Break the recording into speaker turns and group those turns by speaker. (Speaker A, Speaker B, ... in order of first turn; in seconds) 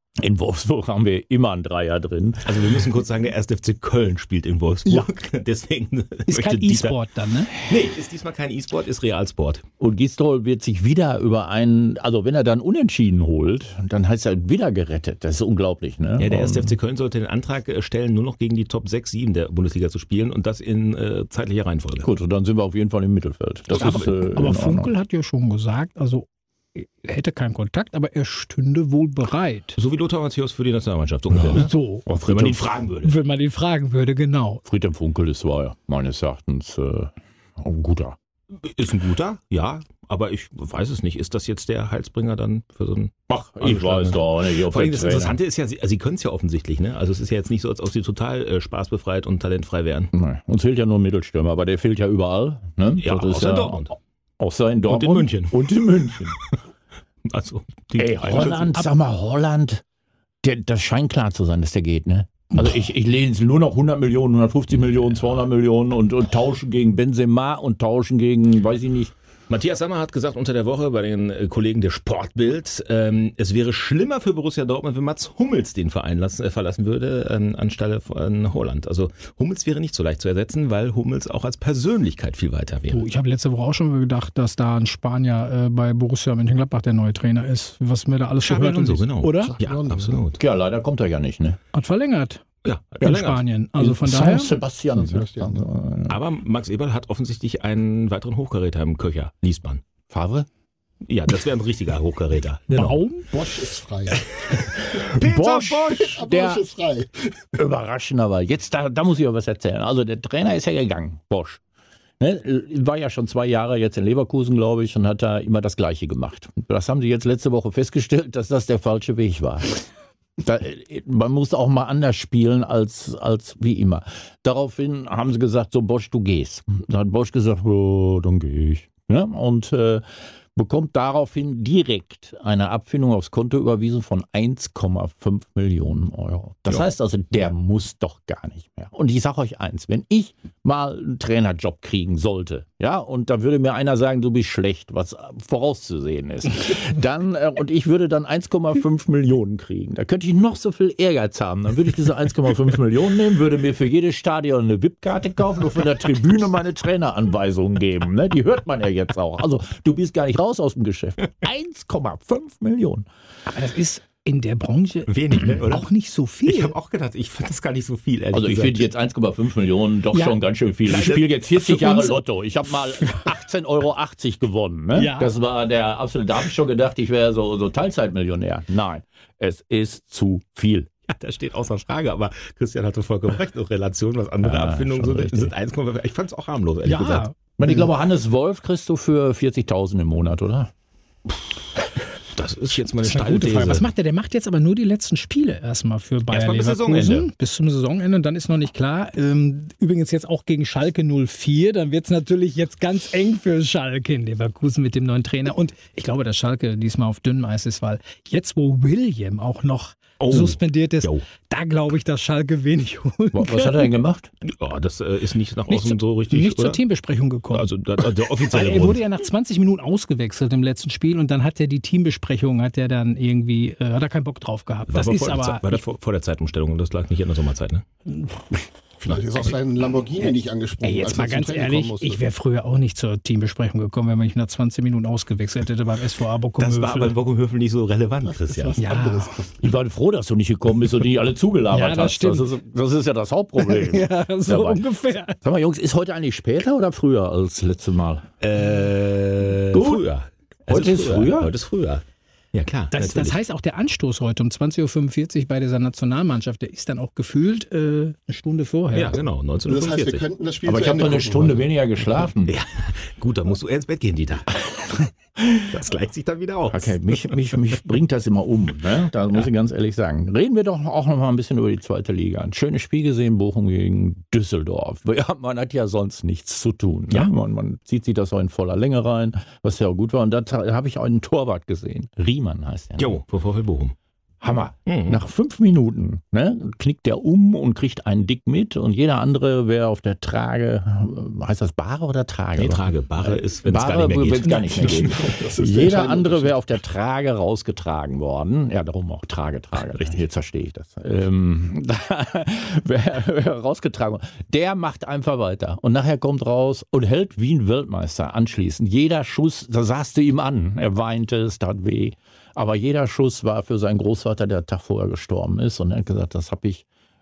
Speaker A: 0.2-2.6, 9.8-16.8, 22.0-24.9, 31.3-32.6, 34.6-38.1, 43.3-45.4, 50.1-56.4, 58.0-59.8, 60.4-69.1, 90.4-91.6, 93.8-96.2, 100.1-100.5, 104.8-106.6, 107.5-111.6, 112.2-119.7, 120.4-130.0, 130.5-163.1, 168.3-180.9, 184.4-185.5, 187.6-190.7, 213.3-214.3, 239.6-244.8, 245.4-248.3, 249.7-250.0, 250.7-251.5, 260.6-262.5, 266.7-283.2, 284.4-316.8
Speaker B: 2.4-6.9, 7.5-9.6, 16.2-22.1, 29.8-33.1, 38.6-50.1, 53.0-53.9, 54.9-56.5, 57.2-58.8, 69.5-83.0, 88.4-90.4, 92.6-93.4, 96.1-99.8, 101.1-103.0, 104.8-106.0, 165.1-165.9, 166.4-168.8, 170.8-171.3, 181.1-187.3, 192.3-193.8, 196.3-197.3, 210.2-211.2, 214.4-216.8, 217.5-219.0, 224.9-227.8, 236.6-238.8, 248.4-253.4, 258.9-260.2, 262.4-264.6, 265.6-266.9, 283.0-283.9, 284.9-285.2, 292.6-295.1
Speaker C: 6.3-7.5, 23.7-29.8, 31.5-32.0, 33.0-34.6, 82.9-89.5, 91.7-92.4, 93.0-94.5, 102.7-103.3, 163.5-166.7, 171.8-172.2, 174.9-175.3, 186.8-187.3, 193.0-213.9, 215.7-225.8, 230.8-237.1, 238.8-239.3, 241.7-242.5, 243.6-245.4, 252.9-259.2
Speaker D: 89.4-90.2, 94.9-95.7, 103.3-104.4, 105.9-107.5, 229.0-232.2, 238.3-239.6, 259.6-261.6, 294.6-296.6